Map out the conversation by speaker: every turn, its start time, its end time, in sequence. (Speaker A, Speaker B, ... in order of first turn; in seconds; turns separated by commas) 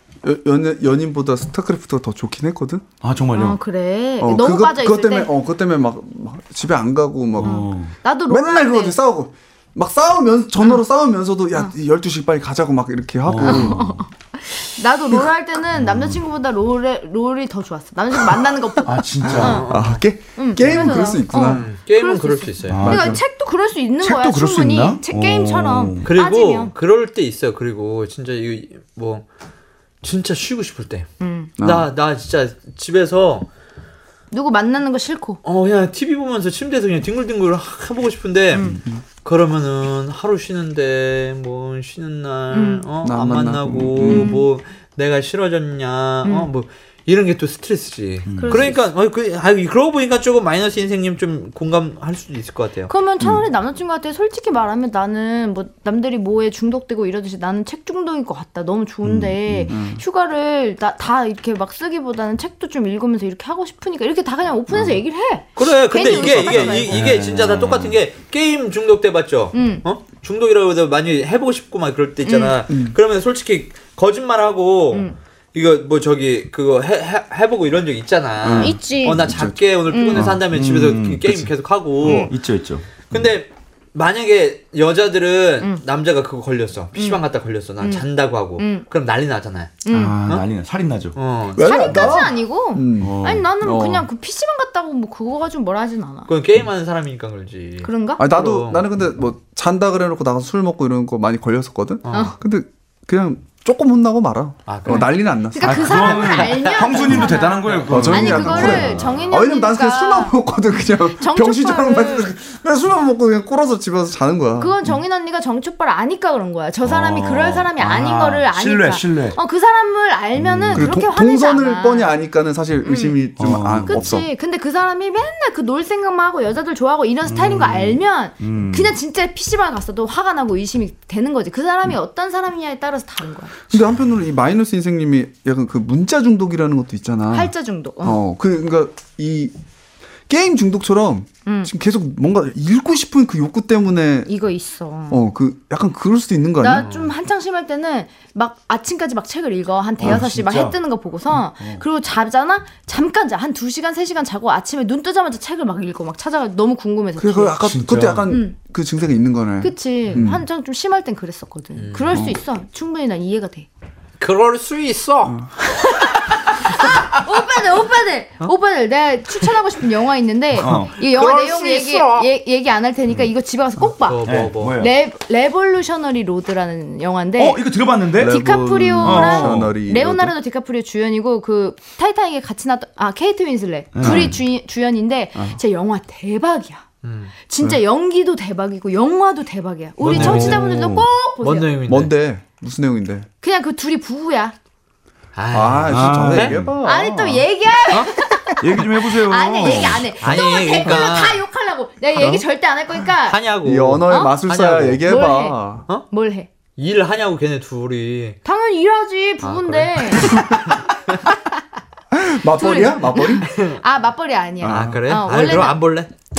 Speaker A: 0.2-2.9, Speaker B: 3.0-3.6, Speaker C: 3.3-5.3, Speaker A: 4.2-7.7, Speaker B: 7.4-7.9, Speaker C: 7.4-9.0, Speaker A: 8.3-14.0, Speaker B: 13.2-13.8, Speaker C: 13.4-19.7, Speaker B: 15.8-16.2, Speaker B: 18.9-19.7, Speaker A: 19.2-21.7, Speaker D: 19.4-20.0, Speaker C: 20.4-26.7, Speaker D: 20.6-22.9, Speaker B: 22.7-23.2, Speaker A: 22.8-23.2, Speaker B: 24.0-26.1, Speaker D: 26.0-29.2, Speaker D: 30.0-33.5, Speaker C: 31.2-31.5, Speaker A: 31.6-31.9, Speaker C: 34.3-35.4, Speaker D: 35.4-38.7, Speaker C: 38.5-38.8, Speaker A: 38.7-39.0, Speaker D: 39.2-52.9, Speaker C: 42.5-42.9, Speaker A: 43.0-44.3, Speaker C: 44.1-44.5, Speaker C: 46.2-46.5, Speaker B: 48.3-48.6, Speaker C: 48.4-48.8, Speaker C: 52.9-67.0, Speaker B: 59.0-59.7, Speaker A: 59.7-60.0, Speaker B: 64.7-65.0, Speaker D: 65.6-82.3, Speaker B: 66.2-68.0, Speaker C: 69.5-69.8, Speaker C: 72.2-72.6, Speaker A: 72.7-73.0, Speaker A: 78.4-79.6, Speaker C: 78.6-79.3, Speaker C: 79.9-80.3, Speaker B: 80.2-83.3, Speaker D: 83.1-90.4, Speaker C: 87.0-87.2, Speaker C: 87.8-88.8, Speaker C: 89.8-90.2, Speaker B: 89.9-91.2, Speaker D: 91.2-92.2, Speaker A: 91.5-94.1, Speaker C: 91.6-96.3, Speaker B: 93.0-93.5, Speaker D: 96.3-98.9, Speaker C: 97.8-98.2, Speaker A: 98.2-106.2, Speaker D: 102.0-102.3, Speaker C: 102.1-102.4, Speaker D: 104.7-105.1, Speaker C: 104.9-110.4, Speaker B: 105.6-109.0, Speaker D: 105.9-109.3, Speaker A: 107.9-114.9, Speaker C: 111.1-112.3, Speaker C: 114.6-122.1, Speaker B: 116.8-119.4, Speaker B: 120.4-121.0, Speaker A: 120.7-124.3, Speaker C: 122.8-133.6, Speaker B: 123.4-124.1, Speaker B: 127.2-128.9, Speaker A: 133.7-139.5, Speaker C: 137.3-138.2, Speaker A: 140.3-144.3, Speaker C: 141.5-141.7, Speaker C: 144.3-145.2, Speaker A: 145.1-146.9, Speaker C: 146.6-157.6, Speaker D: 146.8-147.1, Speaker B: 150.0-150.8, Speaker A: 157.2-160.4, Speaker B: 157.6-158.3, Speaker C: 158.3-158.6, Speaker C: 159.6-163.7, Speaker D: 161.8-162.3, Speaker A: 162.1-162.4, Speaker D: 164.2-165.4, Speaker A: 165.3-165.5, Speaker C: 165.9-174.2, Speaker B: 170.6-170.9, Speaker D: 170.6-172.3, Speaker D: 174.0-174.8, Speaker B: 174.2-174.9, Speaker C: 174.8-177.6, Speaker B: 177.4-178.4, Speaker A: 178.2-180.3, Speaker C: 178.3-186.8, Speaker B: 179.0-179.8, Speaker B: 183.9-184.4, Speaker A: 184.0-184.3, Speaker D: 187.0-187.3, Speaker C: 187.5-191.7, Speaker D: 190.0-190.7, Speaker B: 190.1-191.1, Speaker D: 191.4-192.1, Speaker A: 191.9-193.3, Speaker C: 193.4-194.5, Speaker D: 195.3-196.6, Speaker A: 195.5-197.4, Speaker B: 195.9-196.7, Speaker C: 196.8-203.4, Speaker B: 198.6-200.4, Speaker D: 199.6-201.4, Speaker A: 202.2-202.4, Speaker D: 203.3-205.1, Speaker A: 203.6-205.8, Speaker C: 204.1-204.4, Speaker C: 205.0-206.5, Speaker D: 206.8-208.4, Speaker C: 208.4-210.6, Speaker D: 209.4-211.2, Speaker A: 210.2-210.6, Speaker A: 212.1-213.5, Speaker C: 212.6-215.8, Speaker D: 213.5-213.8, Speaker A: 214.6-215.0, Speaker D: 214.6-216.1